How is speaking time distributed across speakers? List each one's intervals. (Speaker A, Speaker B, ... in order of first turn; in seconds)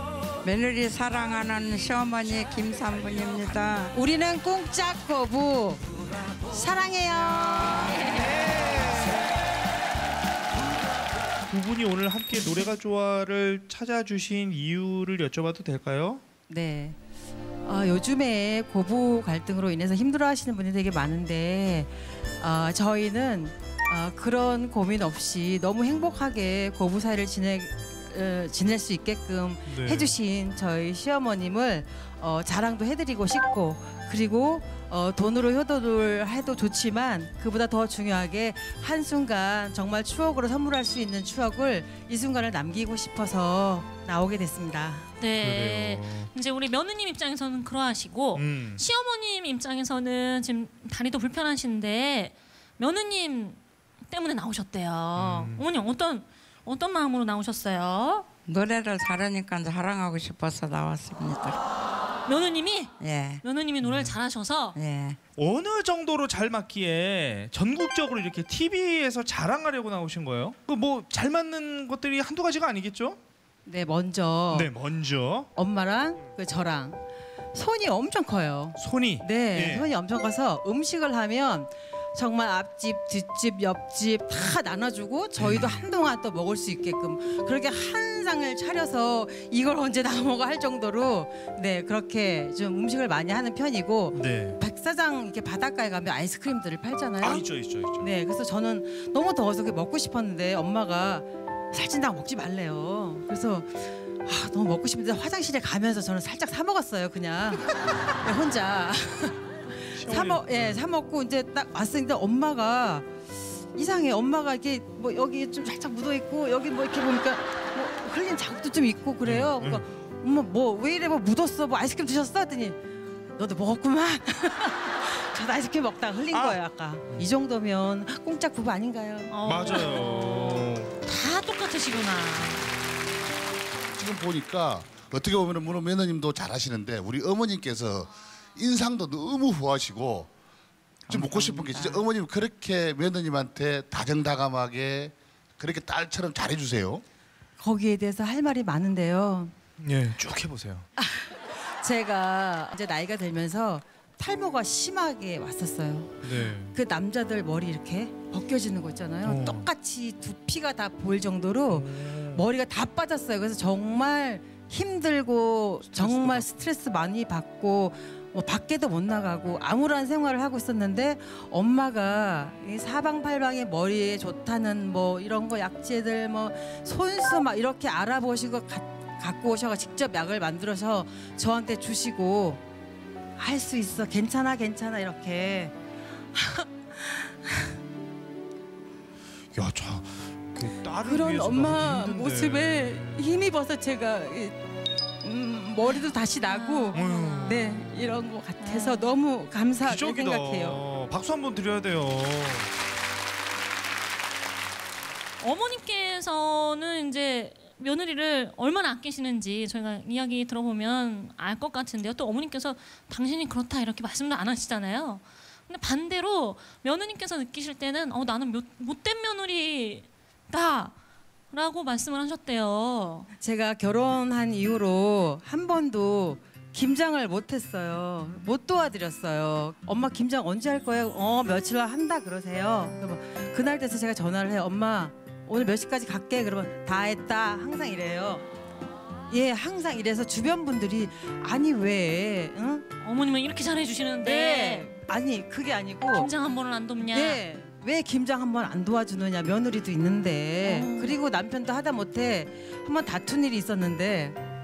Speaker A: 0.4-3.9, 58.5-61.6, 63.0-63.4, 64.8-65.2, 141.1-142.0
Speaker B: 3.9-5.8, 6.5-8.0, 16.5-17.0, 17.6-45.1, 73.7-74.7, 75.5-77.0, 77.5-97.4, 98.0-113.1, 113.7-122.8, 123.3-129.7, 147.6-149.5, 151.0-182.6, 183.4-185.7, 186.3-187.8, 191.0-194.6, 195.2-200.8, 223.4-238.4, 239.3-242.8, 244.2-246.3, 247.1-254.4
Speaker C: 8.2-9.2, 11.5-16.2, 29.7-30.1, 45.4-46.3, 48.3-48.8, 55.1-55.6, 63.8-64.2, 65.4-73.2, 74.5-75.5, 78.8-79.9, 85.4-85.8, 94.1-94.6, 97.2-98.1, 109.9-110.8, 119.2-119.8, 126.3-126.6, 129.4-130.9, 149.8-150.8, 156.2-156.7, 159.2-159.7, 161.7-162.4, 165.9-166.6, 189.5-193.4, 196.9-198.2, 199.8-202.7
Speaker D: 45.2-58.2, 62.2-64.8, 129.3-132.7, 196.4-197.7, 198.6-199.2, 205.4-220.9, 221.5-223.3, 243.0-244.9, 246.1-247.4, 250.6-251.2
Speaker E: 133.9-140.3, 141.1-147.0